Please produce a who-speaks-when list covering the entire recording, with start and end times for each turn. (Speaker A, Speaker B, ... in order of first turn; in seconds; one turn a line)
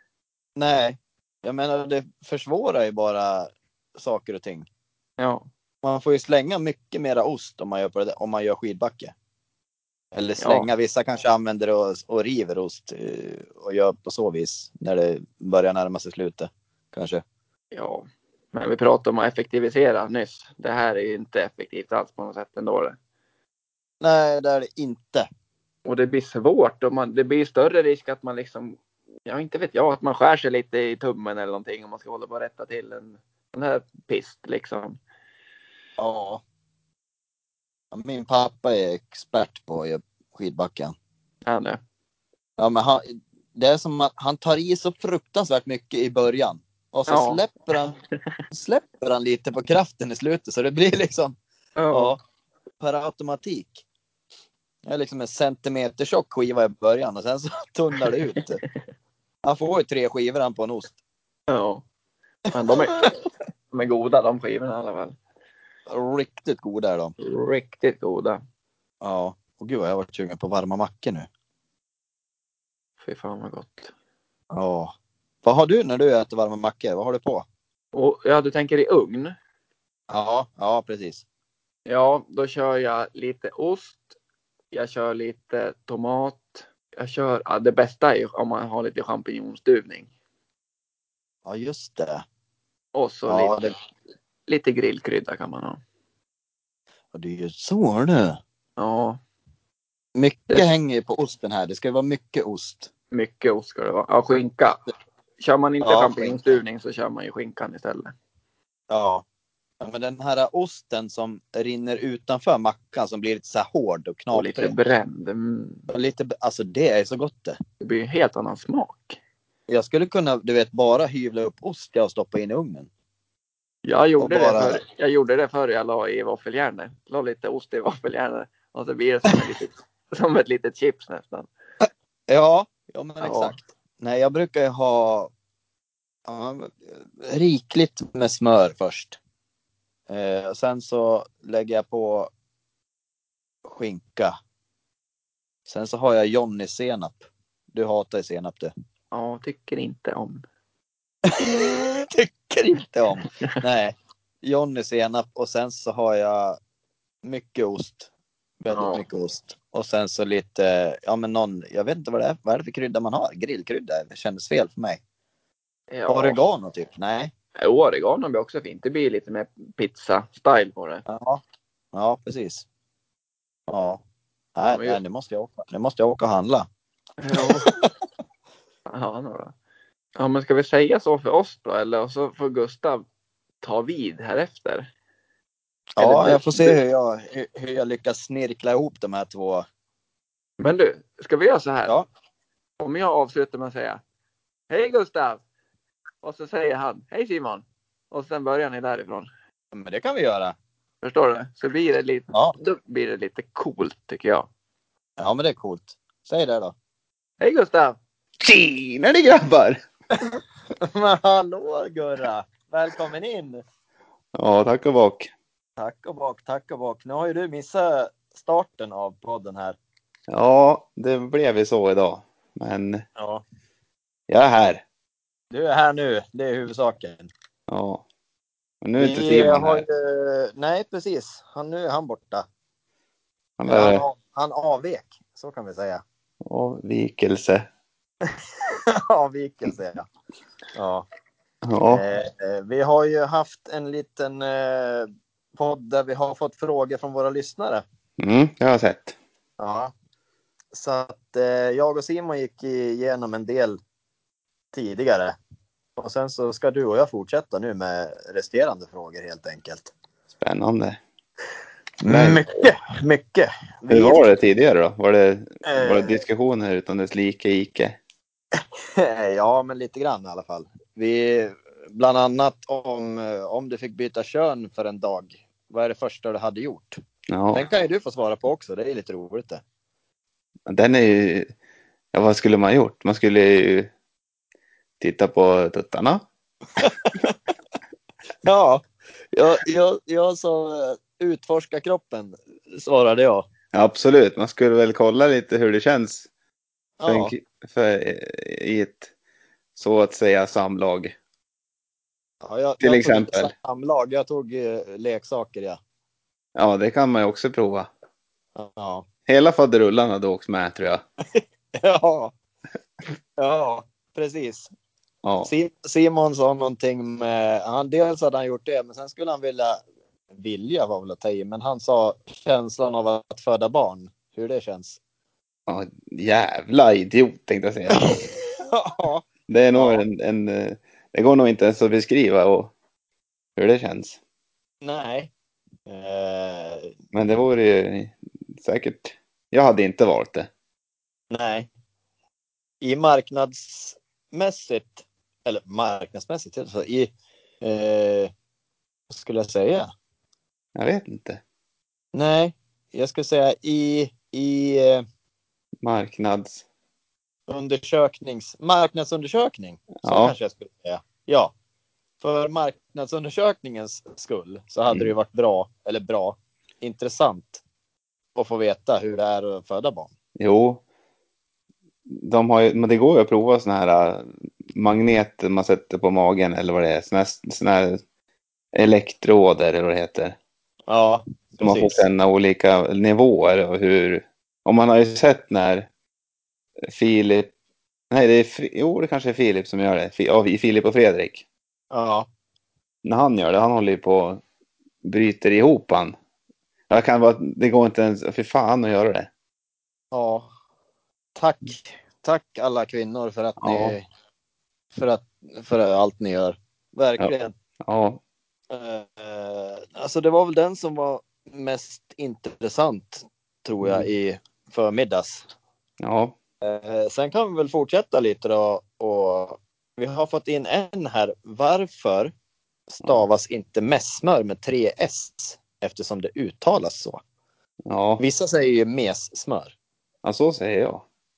Speaker A: 0.6-4.7
Speaker B: 5.2-5.5
Speaker A: 5.8-9.1
Speaker A: 10.1-17.2
Speaker B: 10.4-10.7
Speaker B: 17.7-23.0
Speaker A: 24.0-25.3
Speaker B: 25.8-35.0
Speaker A: 36.0-36.4
Speaker A: 37.9-40.9
Speaker B: 41.5-41.8
Speaker A: 42.6-48.0
Speaker B: 47.1-47.4
Speaker A: 48.5-51.4
Speaker B: 51.8-52.1
Speaker A: 51.9-52.2
Speaker A: 52.8-53.8
Speaker A: 54.8-58.6
Speaker A: 59.4-61.0
Speaker B: 61.5-61.8
Speaker B: 62.5-63.1
Speaker B: 63.7-65.2
Speaker A: 65.9-67.1
Speaker B: 67.2-68.4
Speaker A: 69.0-71.3
Speaker B: 73.0-73.9
Speaker A: 74.5-74.9
Speaker A: 75.4-77.5
Speaker B: 77.9-79.3
Speaker A: 80.1-81.2
Speaker B: 81.9-84.1
Speaker B: 84.7-90.1
Speaker A: 91.5-92.2
Speaker B: 92.9-93.7
Speaker A: 93.3-93.7
Speaker B: 94.5-95.8
Speaker A: 97.1-98.4
Speaker B: 98.8-99.2
Speaker A: 100.2-102.9
Speaker B: 103.1-104.8
Speaker B: 105.4-108.1
Speaker A: 105.8-106.4
Speaker A: 108.9-109.2
Speaker A: 109.8-114.7
Speaker B: 114.3-115.9
Speaker A: 115.9-117.6
Speaker B: 117.8-119.2
Speaker A: 119.7-122.9
Speaker B: 123.8-131.5
Speaker A: 124.2-124.8
Speaker A: 131.8-135.3
Speaker B: 133.2-133.6
Speaker A: 136.2-139.2
Speaker A: 140.1-142.3
Speaker A: 143.6-144.3
Speaker A: 145.7-148.7
Speaker B: 149.1-150.4
Speaker A: 151.2-156.6
Speaker A: 157.2-158.1
Speaker A: 158.6-165.0
Speaker B: 158.7-159.0
Speaker B: 165.9-166.4
Speaker A: 166.1-167.3
Speaker B: 167.6-171.0
Speaker A: 171.1-171.4
Speaker A: 171.9-172.6
Speaker A: 173.7-174.0
Speaker A: 174.6-176.7
Speaker B: 174.7-175.0
Speaker B: 177.2-177.7
Speaker A: 177.3-177.9
Speaker B: 178.9-179.5
Speaker B: 180.2-183.0
Speaker B: 183.6-184.9
Speaker A: 185.9-189.6
Speaker B: 186.0-186.8
Speaker B: 190.6-191.9
Speaker B: 192.8-194.0
Speaker B: 194.7-195.4
Speaker B: 196.2-199.3
Speaker A: 199.7-200.5
Speaker B: 201.0-204.5
Speaker A: 205.2-206.7
Speaker B: 207.4-208.0
Speaker C: 208.4-209.8
Speaker A: 210.1-213.6
Speaker C: 214.3-215.3
Speaker A: 215.8-219.8
Speaker C: 220.3-223.0
Speaker A: 223.2-223.4
Speaker C: 224.3-224.8
Speaker A: 225.5-227.3
Speaker C: 227.7-228.0
Speaker C: 228.8-229.8
Speaker A: 229.0-232.4
Speaker C: 233.6-234.0
Speaker A: 233.7-236.0
Speaker C: 236.4-237.7
Speaker A: 238.9-240.1
Speaker A: 240.7-241.1
Speaker C: 241.6-242.0
Speaker A: 241.9-247.8
Speaker C: 248.2-249.2
Speaker A: 249.6-249.9
Speaker A: 250.7-253.8
Speaker A: 254.7-255.3
Speaker A: 256.0-259.9
Speaker C: 260.4-261.0
Speaker A: 262.0-264.3
Speaker C: 262.0-262.4
Speaker C: 263.9-268.0
Speaker A: 265.6-266.2
Speaker A: 268.5-277.0
Speaker C: 277.3-277.6
Speaker A: 277.5-279.6
Speaker C: 280.7-281.5
Speaker C: 282.1-283.9
Speaker C: 285.0-286.2
Speaker A: 286.8-287.3
Speaker A: 288.4-293.5
Speaker C: 293.7-296.3
Speaker A: 297.0-297.3
Speaker C: 297.1-299.1
Speaker C: 299.8-301.1
Speaker A: 302.4-305.8
Speaker C: 302.8-303.5
Speaker C: 306.6-307.9
Speaker A: 308.6-309.1
Speaker C: 309.3-311.0
Speaker A: 311.3-312.3
Speaker A: 313.4-314.7
Speaker C: 315.2-315.5
Speaker A: 315.4-325.0
Speaker C: 325.7-328.3
Speaker A: 328.0-330.0
Speaker C: 329.5-332.7
Speaker C: 333.6-334.2
Speaker A: 334.8-335.3
Speaker A: 335.9-336.9
Speaker C: 337.1-340.5
Speaker A: 341.3-341.7
Speaker A: 342.8-348.3
Speaker A: 349.1-349.9
Speaker C: 350.7-351.4
Speaker A: 352.1-355.0
Speaker C: 355.8-356.6
Speaker A: 357.5-361.5
Speaker C: 360.0-360.3
Speaker A: 362.2-367.6
Speaker A: 368.3-370.1
Speaker C: 370.4-370.8
Speaker C: 372.1-378.0
Speaker C: 378.7-380.4
Speaker A: 380.9-382.0
Speaker C: 381.6-385.9
Speaker C: 386.9-387.5
Speaker C: 388.1-391.4
Speaker A: 391.9-392.3
Speaker C: 393.0-394.4
Speaker C: 395.0-396.1
Speaker C: 396.9-399.3
Speaker A: 400.1-400.5
Speaker A: 401.4-404.1
Speaker C: 403.6-403.9
Speaker A: 404.9-407.5
Speaker C: 407.8-408.2
Speaker A: 408.7-415.4
Speaker C: 416.0-416.3
Speaker A: 416.6-422.3
Speaker A: 422.9-427.2
Speaker C: 427.9-428.2
Speaker A: 428.2-429.7
Speaker C: 430.2-431.0